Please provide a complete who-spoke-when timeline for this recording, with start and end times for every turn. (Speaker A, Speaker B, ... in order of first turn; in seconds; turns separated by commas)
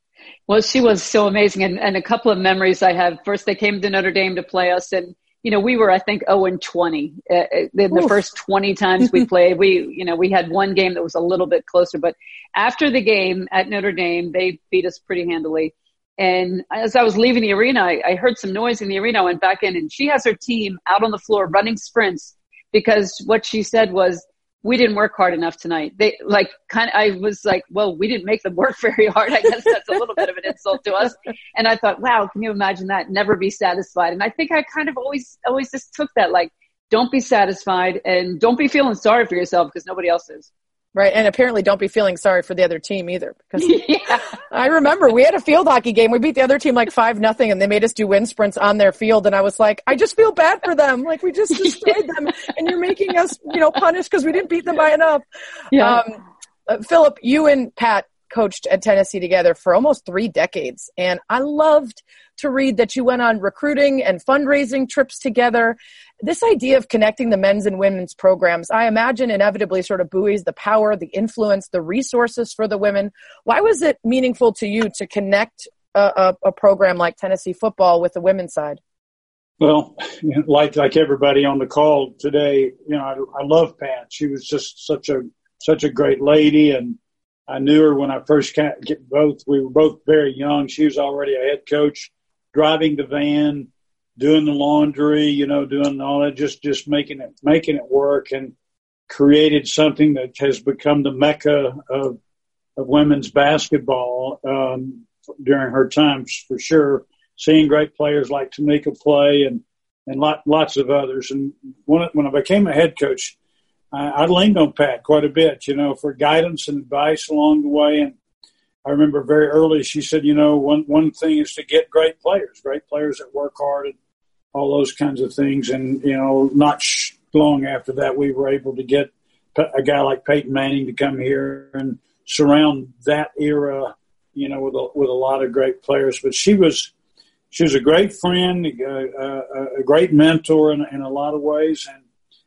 Speaker A: 0.5-40.5, Speaker B: 40.9-43.8, Speaker A: 43.6-44.2, Speaker B: 44.5-78.8, Speaker A: 55.7-56.0, Speaker C: 79.6-87.0, Speaker C: 87.5-98.5, Speaker C: 99.1-102.2, Speaker C: 102.8-113.3, Speaker C: 113.9-118.1, Speaker C: 118.8-123.9, Speaker C: 124.5-136.9, Speaker C: 137.5-142.0